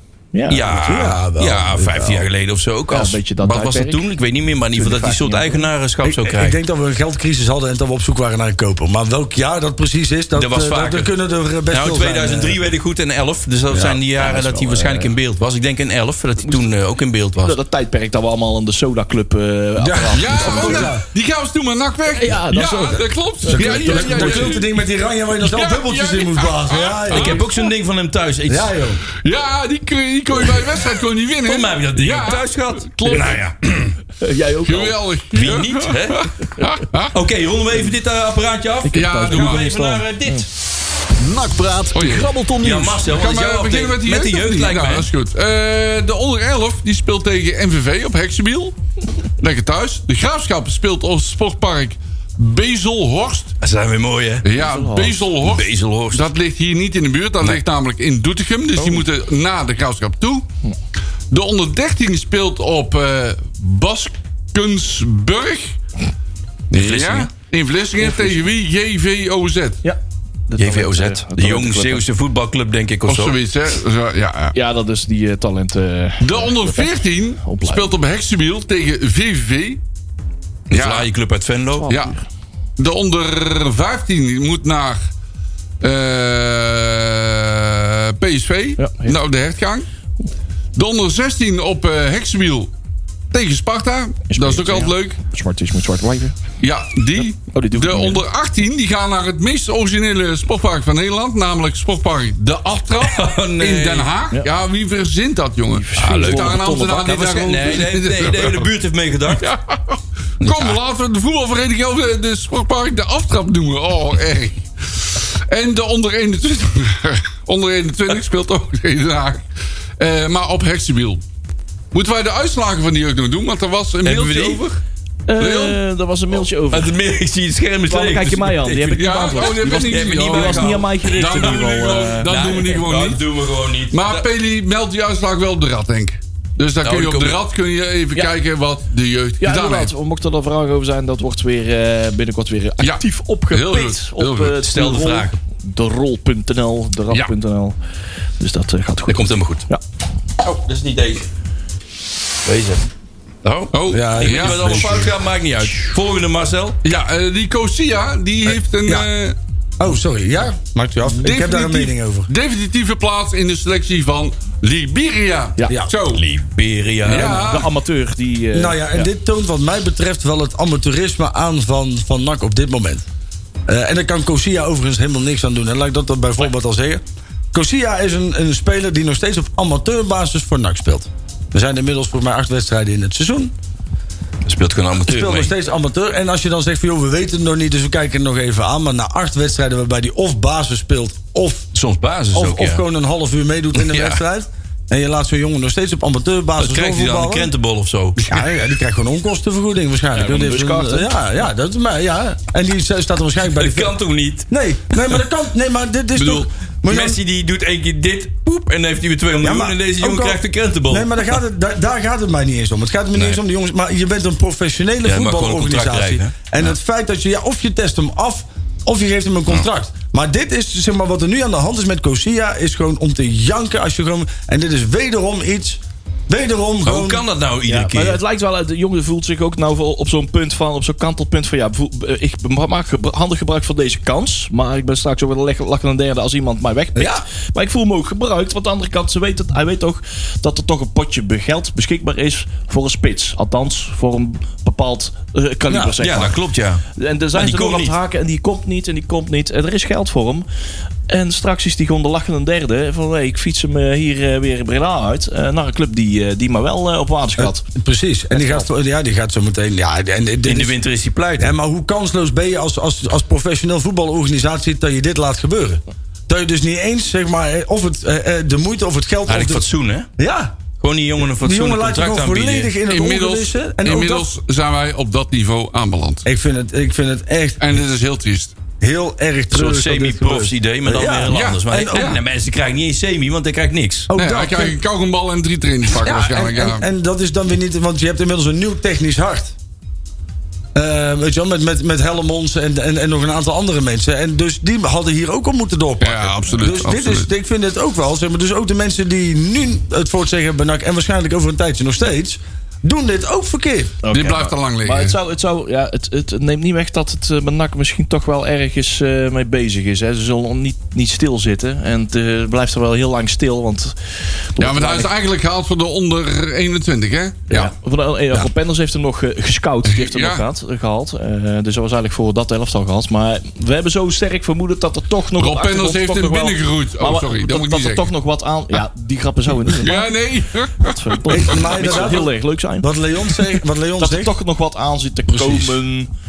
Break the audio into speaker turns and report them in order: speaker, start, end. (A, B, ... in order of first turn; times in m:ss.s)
0:00.3-0:00.8 A
0:00.5-0:06.6 B
0:00.8-0:02.3 C
0:02.9-0:04.0 A
0:04.8-0:05.7 A
0:06.0-0:12.6 C
0:10.3-0:11.1 B
0:11.7-0:17.6 B
0:13.7-0:15.1 A
0:16.4-0:16.6 A
0:17.4-0:20.9 A
0:19.8-0:21.0 C
0:20.1-0:24.8 D
0:22.1-0:24.6 A
0:23.5-0:27.4 C
0:25.4-0:27.4 D
0:27.1-0:28.7 B
0:28.5-0:29.0 C
0:29.1-0:33.4 D
0:31.4-0:34.0 B
0:34.2-0:35.0 A
0:34.6-0:37.1 D
0:35.3-0:36.3 B
0:37.1-0:40.5 B
0:38.8-0:40.4 A
0:38.9-0:39.8 D
0:39.7-0:40.0 C
0:41.2-0:43.1 E
0:41.9-0:42.4 D
0:42.6-0:45.1 B
0:43.0-0:48.7 D
0:49.4-0:53.5 D
0:53.6-0:54.4 B
0:54.4-1:00.4 D
0:54.5-0:55.2 A
0:55.4-0:56.2 B
0:58.8-0:59.0 A
1:01.3-1:05.7 D
1:06.7-1:09.8 D
1:06.7-1:07.3 B
1:08.0-1:08.4 A
1:09.8-1:12.0 A
1:10.6-1:13.4 B
1:13.0-1:14.5 D
1:14.5-1:16.9 A
1:16.2-1:19.8 D
1:17.4-1:17.9 A
1:20.7-1:21.1 D
1:20.7-1:21.9 B
1:21.7-1:22.2 A
1:21.9-1:22.1 D
1:22.8-1:25.0 D
1:25.8-1:29.8 D
1:28.8-1:29.2 A
1:30.7-1:32.7 D
1:33.3-1:35.2 D
1:34.3-1:36.4 A
1:36.6-1:48.7 D
1:37.5-1:38.2 A
1:43.0-1:44.1 B
1:45.7-1:47.1 A
1:46.0-1:49.5 B
1:49.4-1:59.4 D
1:50.4-1:50.8 B
2:00.0-2:01.2 D
2:01.9-2:04.7 D
2:04.0-2:04.8 B
2:05.3-2:06.9 A
2:05.4-2:05.8 D
2:06.3-2:14.3 B
2:07.9-2:12.7 A
2:09.0-2:13.2 D
2:13.9-2:19.9 D
2:16.8-2:17.4 B
2:19.4-2:27.8 A
2:22.8-2:24.6 D
2:24.6-2:25.4 B
2:28.4-2:29.8 A
2:29.1-2:29.6 B
2:30.4-2:31.3 B
2:32.4-2:32.9 B
2:33.4-2:36.8 B
2:33.7-2:35.1 D
2:33.9-2:35.2 C
2:36.8-2:39.4 D
2:39.8-2:42.3 C
2:41.2-2:46.2 D
2:45.7-2:46.0 C
2:46.1-2:47.6 B
2:47.0-2:47.7 D
2:47.1-2:49.1 A
2:48.5-2:53.0 C
2:53.7-2:57.0 C
2:57.5-3:03.5 C
3:04.4-3:05.5 B
3:05.0-3:11.7 C
3:11.7-3:12.8 B
3:12.3-3:17.5 C
3:13.8-3:14.2 B
3:16.6-3:18.2 B
3:18.2-3:18.6 D
3:18.3-3:27.2 C
3:20.1-3:21.1 A
3:23.4-3:25.2 B
3:26.1-3:31.2 B
3:29.4-3:47.2 C
3:33.1-3:33.4 B
3:35.0-3:36.7 B
3:46.8-3:48.2 B
3:47.6-4:06.4 A
3:56.9-3:57.2 C
4:05.7-4:05.9 C
4:06.0-4:06.8 B
4:06.9-4:10.4 A
4:07.3-4:07.9 B
4:11.1-4:17.6 A
4:17.4-4:20.8 C
4:18.3-4:18.6 A
4:20.4-4:21.6 B
4:21.4-4:30.6 C
4:29.3-4:30.1 B
4:30.8-4:32.8 B
4:31.2-4:34.3 C
4:32.9-4:36.2 D
4:36.2-4:37.8 C
4:37.6-4:38.5 D
4:38.8-4:42.2 C
4:39.5-4:44.1 B
4:41.3-4:42.2 D
4:44.1-4:44.8 C
4:44.2-4:46.8 D
4:45.9-4:49.5 C
4:50.7-5:03.9 C
4:56.0-4:57.3 D
5:04.0-5:13.9 A
5:04.1-5:05.2 D
5:14.5-5:15.1 A
5:14.6-5:17.7 D
5:17.5-5:30.1 A
5:19.8-5:20.4 D
5:25.4-5:28.1 D
5:29.7-5:31.6 D
5:30.8-5:32.9 A
5:31.3-5:34.4 C
5:34.0-5:36.1 A
5:35.3-5:35.8 C